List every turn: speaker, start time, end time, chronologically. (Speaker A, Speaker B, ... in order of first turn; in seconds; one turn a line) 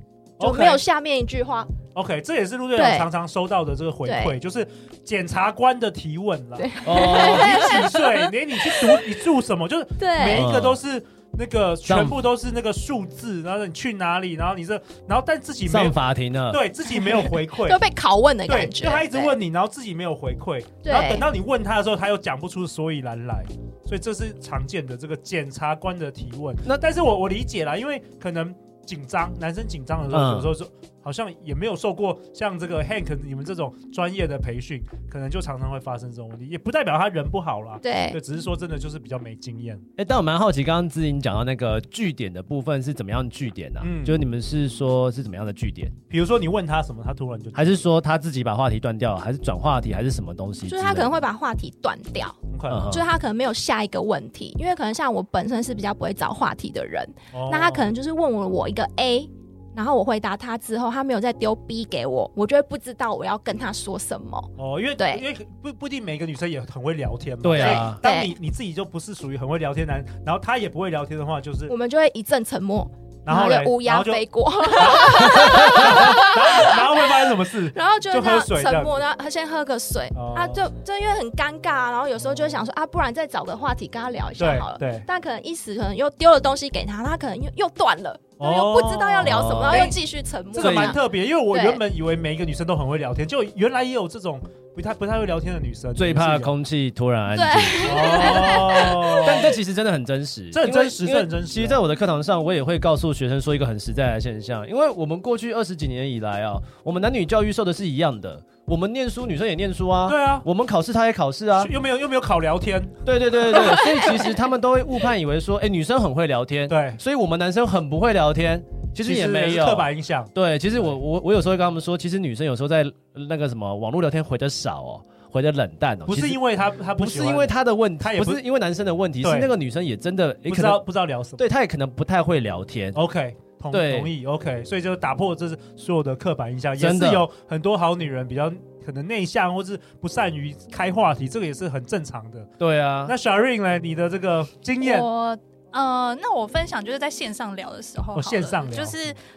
Speaker A: 0.4-0.8
Speaker B: 0.4-1.7
Speaker A: 1.9-16.0
Speaker B: 2.8-3.1
Speaker B: 4.0-4.3
Speaker B: 6.6-9.0
Speaker C: 6.8-7.9
Speaker B: 10.0-10.5
Speaker C: 10.2-10.8
Speaker C: 11.9-12.2
Speaker C: 15.7-16.6
Speaker A: 16.5-17.8
Speaker B: 17.6-19.4
Speaker A: 18.5-39.8
Speaker B: 20.8-21.3
Speaker C: 30.1-30.5
Speaker B: 37.8-38.2
Speaker C: 40.0-45.9
Speaker A: 43.8-44.2
Speaker A: 46.1-47.8
Speaker C: 47.5-51.1
Speaker B: 50.7-65.2
Speaker A: 52.5-52.8
Speaker C: 52.7-53.1
Speaker A: 57.3-57.9
Speaker A: 64.6-71.7
Speaker C: 67.4-68.0
Speaker B: 67.5-68.3
Speaker B: 71.7-91.8
Speaker A: 73.2-78.9
Speaker A: 80.1-80.6
Speaker A: 84.4-85.1
Speaker A: 88.4-90.0
Speaker C: 89.2-90.0
Speaker A: 90.5-96.5
Speaker C: 90.6-91.0
Speaker C: 96.0-111.7
Speaker B: 97.3-99.4
Speaker A: 97.8-99.5
Speaker A: 100.5-101.8
Speaker A: 110.1-110.5
Speaker A: 111.6-114.2
Speaker C: 113.0-126.4
Speaker A: 116.7-117.0
Speaker A: 119.0-120.9
Speaker A: 126.1-128.4
Speaker C: 127.0-130.8
Speaker A: 129.2-129.5
Speaker A: 130.5-131.4
Speaker C: 131.4-133.0
Speaker A: 132.9-142.5
Speaker C: 133.7-134.1
Speaker C: 136.8-137.3
Speaker C: 142.6-143.1
Speaker A: 143.1-145.1
Speaker D: 144.8-149.2
Speaker A: 148.2-149.0